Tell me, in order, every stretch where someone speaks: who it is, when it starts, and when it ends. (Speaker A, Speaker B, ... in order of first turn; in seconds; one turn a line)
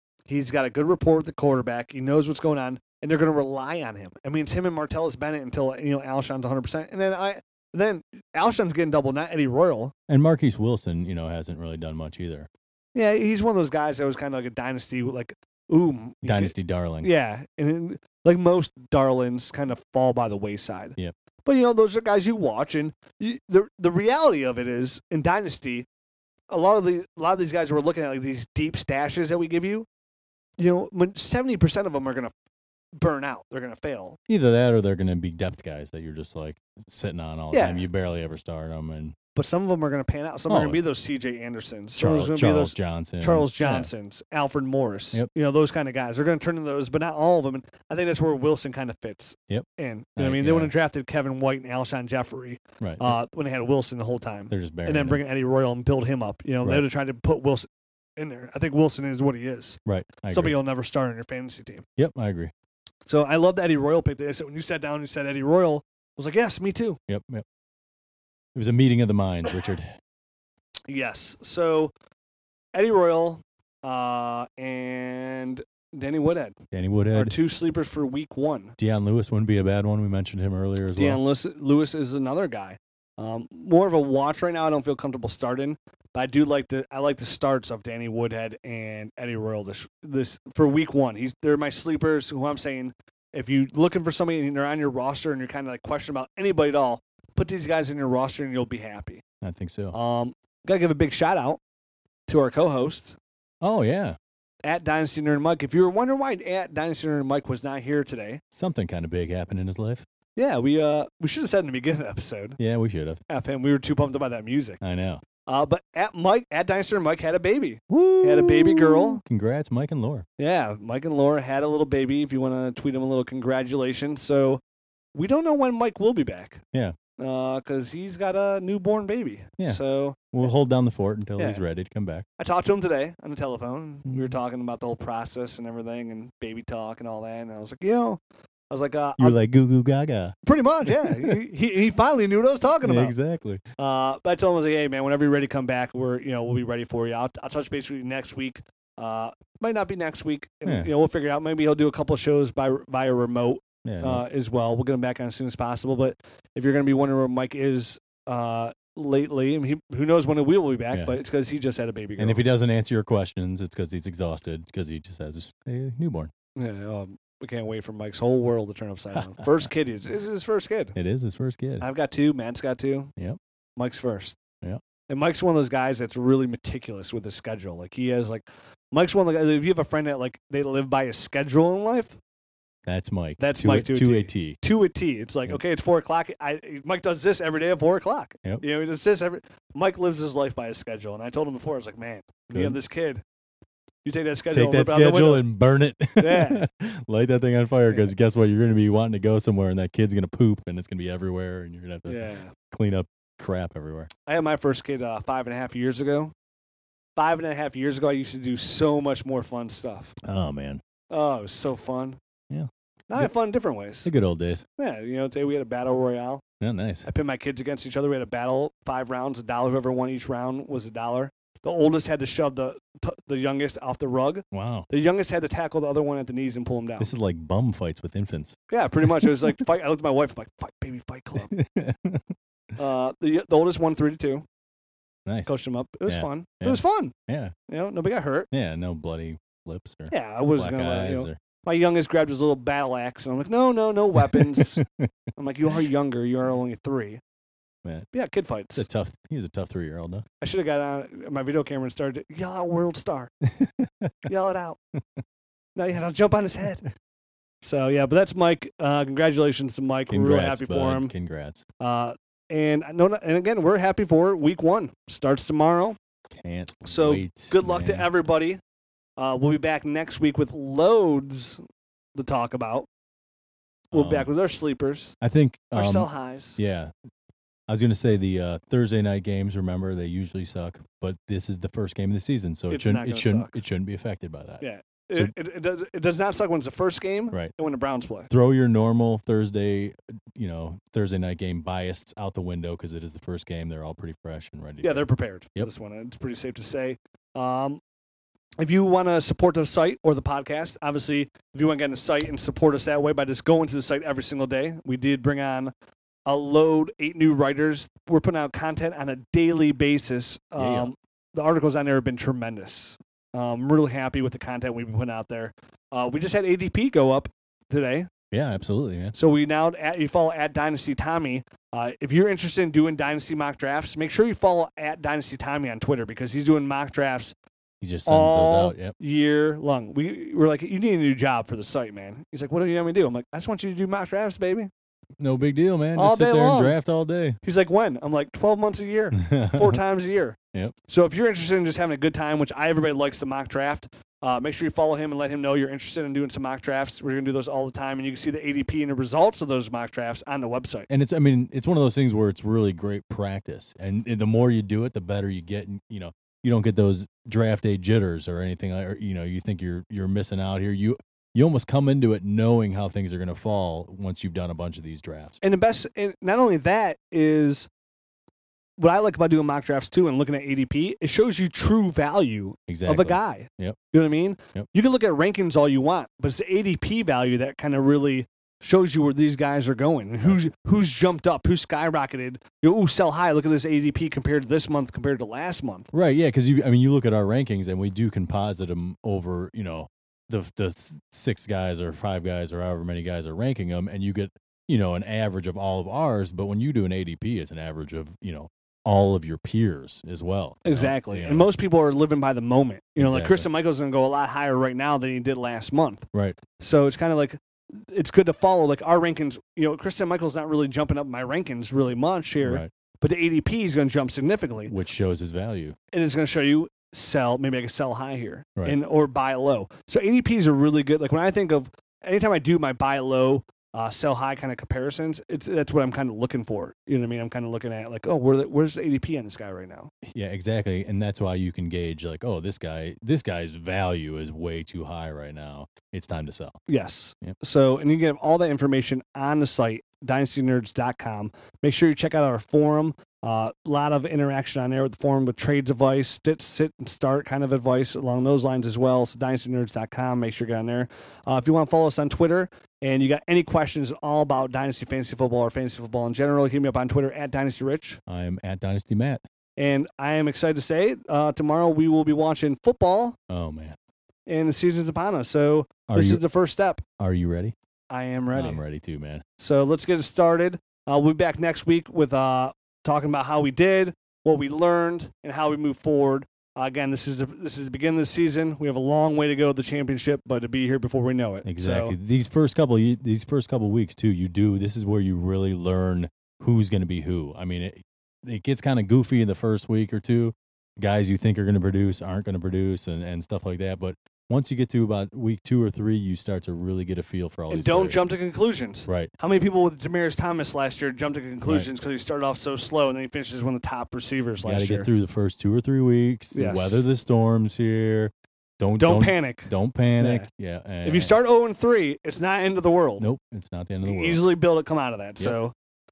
Speaker A: 0.3-9.9
Speaker B: 10.1-12.5
Speaker A: 12.9-25.9
Speaker B: 16.2-17.1
Speaker A: 26.5-29.9
Speaker A: 30.6-32.3
Speaker A: 33.0-34.2
Speaker B: 34.3-39.2
Speaker A: 37.5-37.8
Speaker A: 39.4-61.9
Speaker B: 40.5-40.8
Speaker B: 42.0-43.9
Speaker B: 49.5-50.7
Speaker B: 52.8-53.2
Speaker B: 54.5-55.2
Speaker B: 59.9-60.6
Speaker B: 62.0-62.5
Speaker A: 63.1-67.0
Speaker B: 67.1-67.5
Speaker B: 68.5-70.0
Speaker A: 70.9-71.9
Speaker A: 72.7-76.6
Speaker B: 76.7-77.3
Speaker A: 77.1-78.8
Speaker B: 78.8-81.2
Speaker A: 81.0-99.2
Speaker B: 99.4-100.0
Speaker A: 99.9-101.6
Speaker A: 102.3-103.2
Speaker B: 103.6-104.2
Speaker A: 104.6-108.4
Speaker B: 108.5-110.0
Speaker A: 110.4-112.6
Speaker B: 112.6-113.2
Speaker A: 113.3-114.8
Speaker B: 114.8-115.2
Speaker A: 115.5-119.2
Speaker B: 117.9-120.3
Speaker A: 120.4-124.6
Speaker A: 125.1-126.6
Speaker A: 127.2-130.5
Speaker B: 129.6-132.3
Speaker A: 132.4-138.2
Speaker B: 134.1-134.3
Speaker A: 138.7-139.4
Speaker B: 139.2-141.4
Speaker A: 140.4-143.1
Speaker B: 142.8-143.6
Speaker A: 143.8-162.4
Speaker B: 150.7-150.9
Speaker B: 153.8-154.3
Speaker B: 160.9-161.2
Speaker B: 162.2-166.3
Speaker A: 166.6-170.9
Speaker B: 170.9-171.9
Speaker A: 171.8-173.1
Speaker A: 173.8-174.4
Speaker A: 175.1-182.2
Speaker B: 182.9-184.6
Speaker A: 183.4-193.2
Speaker B: 192.5-192.8
Speaker A: 194.1-195.4
Speaker B: 194.5-204.1
Speaker A: 196.2-196.6
Speaker A: 202.1-202.5
Speaker A: 204.3-206.3
Speaker A: 207.2-210.2
Speaker B: 210.2-210.8
Speaker A: 211.1-212.2
Speaker B: 212.5-213.3
Speaker A: 213.1-214.1
Speaker B: 214.0-214.7
Speaker A: 214.8-216.4
Speaker B: 216.6-217.1
Speaker A: 217.1-227.1
Speaker B: 224.5-224.9
Speaker B: 227.0-229.5
Speaker A: 228.7-231.5
Speaker B: 231.5-232.3
Speaker A: 232.8-234.4
Speaker B: 235.3-235.6
Speaker A: 235.5-237.1
Speaker B: 236.1-237.5
Speaker A: 237.7-238.5
Speaker B: 238.5-241.4
Speaker A: 240.1-244.8
Speaker B: 244.2-245.1
Speaker A: 245.4-247.2
Speaker A: 248.1-248.9
Speaker B: 248.8-250.3
Speaker A: 250.4-253.3
Speaker B: 253.5-254.2
Speaker A: 254.2-254.8
Speaker A: 255.8-256.9
Speaker A: 257.6-261.1
Speaker B: 260.1-261.6
Speaker A: 261.8-266.0
Speaker B: 266.3-268.1
Speaker A: 266.9-268.6
Speaker A: 269.2-271.6
Speaker A: 272.1-272.9
Speaker B: 273.9-274.3
Speaker A: 273.9-275.2
Speaker B: 275.2-276.9
Speaker A: 275.8-276.6
Speaker B: 277.7-285.3
Speaker A: 282.7-283.6
Speaker A: 284.6-288.3
Speaker B: 288.3-295.7
Speaker A: 294.8-297.8
Speaker A: 298.6-305.7
Speaker A: 306.3-318.1
Speaker B: 310.6-310.9
Speaker B: 318.3-319.1
Speaker A: 319.1-327.4
Speaker B: 327.8-328.9
Speaker A: 328.1-334.7
Speaker B: 335.2-337.4
Speaker A: 336.0-336.8
Speaker A: 337.4-350.9
Speaker B: 339.2-339.8
Speaker B: 350.9-365.4
Speaker A: 365.4-367.7
Speaker A: 368.8-385.9
Speaker B: 372.7-373.8
Speaker B: 385.9-401.5
Speaker A: 400.6-406.1
Speaker B: 403.0-403.5
Speaker B: 406.1-406.4
Speaker A: 406.6-414.7
Speaker B: 412.4-412.7
Speaker B: 414.7-415.8
Speaker A: 415.9-429.9
Speaker B: 430.0-436.6
Speaker A: 436.7-458.0
Speaker B: 458.1-459.2
Speaker A: 459.6-463.2
Speaker B: 463.3-463.8
Speaker A: 464.3-466.8
Speaker B: 465.9-466.2
Speaker B: 467.0-467.6
Speaker A: 467.9-468.6
Speaker B: 468.3-469.2
Speaker A: 469.4-482.0
Speaker B: 481.4-498.1
Speaker A: 497.5-504.9
Speaker B: 498.9-499.1
Speaker B: 504.4-511.2
Speaker A: 506.3-506.9
Speaker A: 508.8-510.3
Speaker A: 510.8-513.0
Speaker B: 513.0-514.2
Speaker A: 513.8-515.5